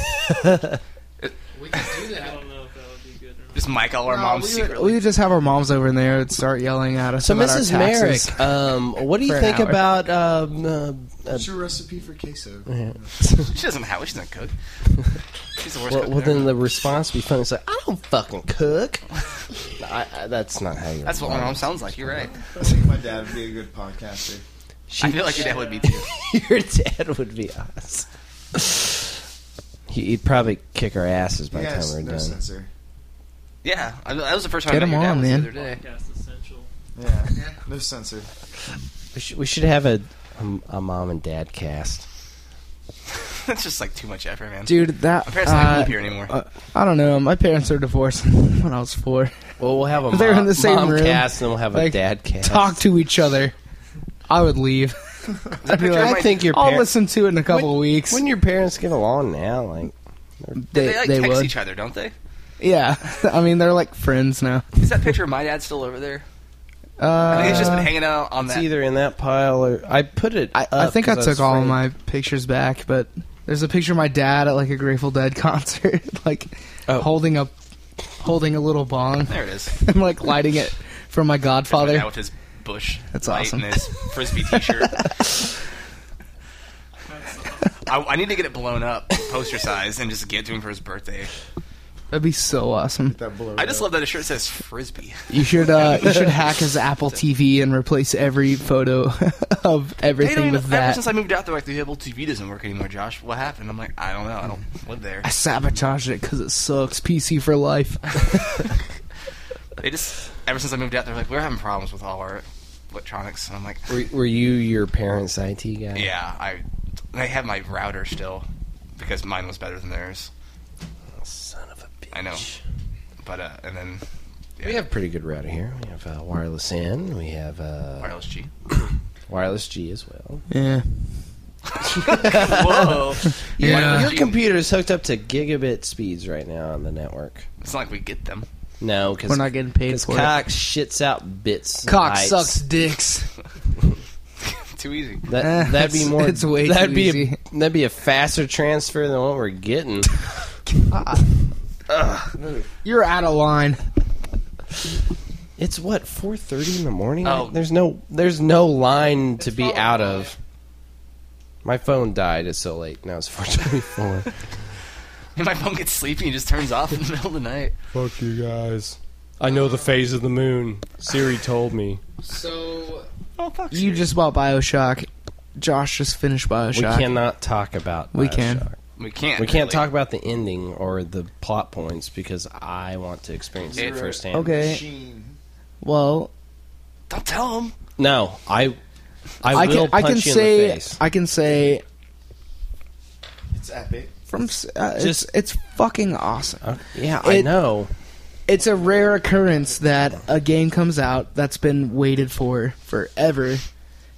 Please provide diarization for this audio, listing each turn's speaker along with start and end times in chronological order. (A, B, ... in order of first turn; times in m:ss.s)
0:00.3-0:00.8 A
0:01.2-0:01.9 B
0:01.5-0:02.4 C
0:02.0-0:03.9 D
0:03.5-0:05.0 B
0:04.0-0:08.4 C
0:07.2-0:11.5 A
0:09.2-0:09.8 C
0:11.3-0:13.1 E
0:12.7-0:13.5 A
0:13.4-0:14.5 B
0:15.6-0:16.6 B
0:15.9-0:19.0 A
0:19.8-0:22.3 A
0:21.0-0:22.4 B
0:22.5-0:24.4 E
0:24.9-0:28.9 A
0:25.0-0:26.0 B
0:25.4-0:25.9 D
0:29.9-0:32.3 A
0:31.5-0:32.7 E
0:33.6-0:35.8 B
0:34.7-0:35.5 C
0:35.5-0:36.7 D
0:37.0-0:38.3 E
0:39.1-0:42.0 A
0:43.2-0:46.3 B
0:44.6-0:49.3 C
0:49.6-0:52.8 A
0:50.1-0:53.5 C
0:54.3-0:55.0 C
0:55.6-0:56.4 B
0:55.6-0:58.2 C
0:55.8-0:56.9 A
0:57.5-1:00.6 A
1:00.6-1:01.5 C
1:00.7-1:02.1 B
1:02.6-1:04.6 C
1:04.8-1:06.2 B
1:07.0-1:07.9 C
1:07.3-1:08.7 B
1:07.3-1:07.8 A
1:08.4-1:11.8 A
1:10.5-1:17.6 C
1:18.2-1:22.1 C
1:19.3-1:19.7 B
1:21.7-1:25.1 B
1:23.1-1:24.1 C
1:27.1-1:27.8 D
1:27.8-1:31.3 B
1:32.1-1:33.2 C
1:33.1-1:33.9 E
1:33.6-1:36.0 B
1:35.3-1:41.0 C
1:40.2-1:45.3 B
1:45.2-1:48.2 C
1:49.8-1:53.9 B
1:53.9-1:56.1 A
1:55.9-2:00.3 B
2:01.2-2:02.6 A
2:02.1-2:02.4 B
2:03.2-2:04.0 B
2:04.6-2:04.8 B
2:04.6-2:08.1 A
2:08.0-2:08.5 B
2:09.3-2:10.4 A
2:10.5-2:11.1 C
2:11.8-2:14.4 B
2:11.9-2:17.4 A
2:13.6-2:14.2 C
2:17.6-2:18.4 B
2:18.8-2:22.6 A
2:19.3-2:20.3 C
2:21.8-2:23.3 C
2:24.6-2:25.2 B
2:25.3-2:30.2 A
2:25.4-2:27.4 C
2:30.7-2:31.2 C
2:32.3-2:32.7 E
2:32.8-2:33.8 C
2:35.6-2:40.3 A
2:37.2-2:37.6 B
2:39.4-2:40.3 C
2:41.6-2:44.3 A
2:45.4-2:47.7 B
2:47.9-2:52.0 A
2:52.2-2:53.1 C
2:53.4-2:54.1 B
2:53.7-2:57.2 C
2:56.7-2:58.8 A
2:58.1-2:58.7 C
2:59.0-2:59.9 B
2:59.4-3:04.6 A
3:03.7-3:05.4 E
3:03.7-3:04.0 B
3:04.3-3:04.8 C
3:05.8-3:06.3 C
3:07.1-3:07.7 B
3:08.0-3:08.8 A
3:09.4-3:11.0 A
3:09.5-3:11.8 C
3:13.5-3:14.1 E
3:14.3-3:17.6 C
3:15.0-3:15.2 A
3:16.6-3:17.9 A
3:18.5-3:23.6 C